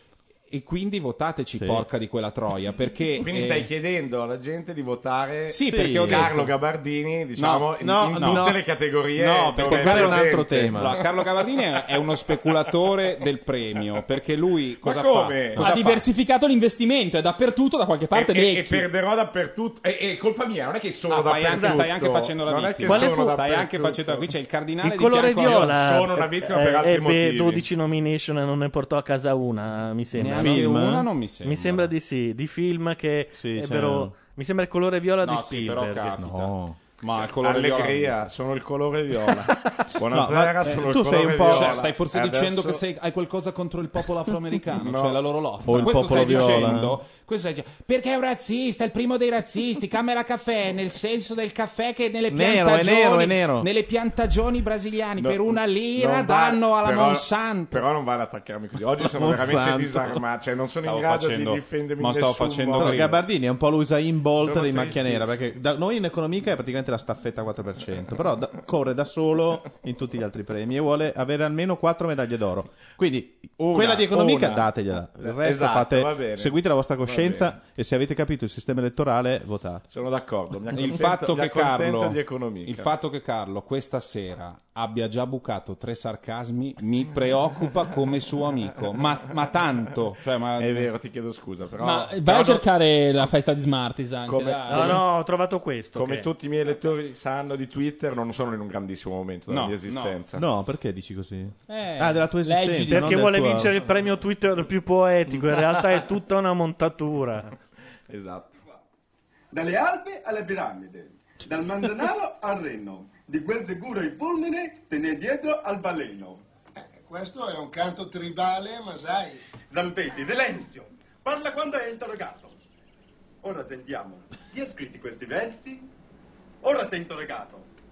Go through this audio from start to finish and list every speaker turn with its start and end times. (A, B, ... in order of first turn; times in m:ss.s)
0:00.5-0:03.7 A
0:01.6-0:01.8 B
0:03.2-0:11.0 C
0:05.5-0:06.5 A
0:05.6-0:06.3 B
0:07.4-0:08.5 A
0:07.8-0:08.6 B
0:09.1-0:11.0 B
0:09.6-0:16.1 A
0:12.0-0:12.2 C
0:14.8-0:15.7 C
0:15.6-0:18.8 D
0:18.1-0:24.3 C
0:21.1-0:25.8 A
0:21.5-0:21.8 E
0:22.8-0:23.4 E
0:24.8-0:30.7 E
0:25.4-0:27.6 C
0:30.2-0:31.9 A
0:30.2-0:31.1 B
0:31.4-0:36.1 E
0:33.4-0:34.1 B
0:35.2-0:38.2 A
0:36.2-0:36.8 B
0:37.4-0:42.8 C
0:40.1-0:41.9 B
0:40.6-0:57.8 A
0:44.7-0:45.2 C
0:45.6-0:47.0 B
0:46.1-0:46.6 C
0:52.3-0:53.7 B
0:55.2-1:03.1 C
0:59.0-1:00.2 B
1:00.8-1:03.2 A
1:02.8-1:19.8 B
1:04.4-1:05.4 C
1:13.7-1:17.5 C
1:19.9-1:22.9 C
1:20.7-1:30.9 A
1:30.6-1:32.6 C
1:31.8-1:35.0 D
1:34.3-1:35.0 C
1:34.7-1:36.3 E
1:35.9-1:40.4 C
1:39.5-1:40.2 A
1:40.4-1:43.7 B
1:41.7-1:43.2 D
1:42.9-1:47.5 E
1:48.1-1:48.5 C
1:49.5-1:56.4 F
1:56.9-1:59.4 G
1:59.7-2:02.5 F
2:03.4-2:05.9 F
2:06.6-2:07.6 F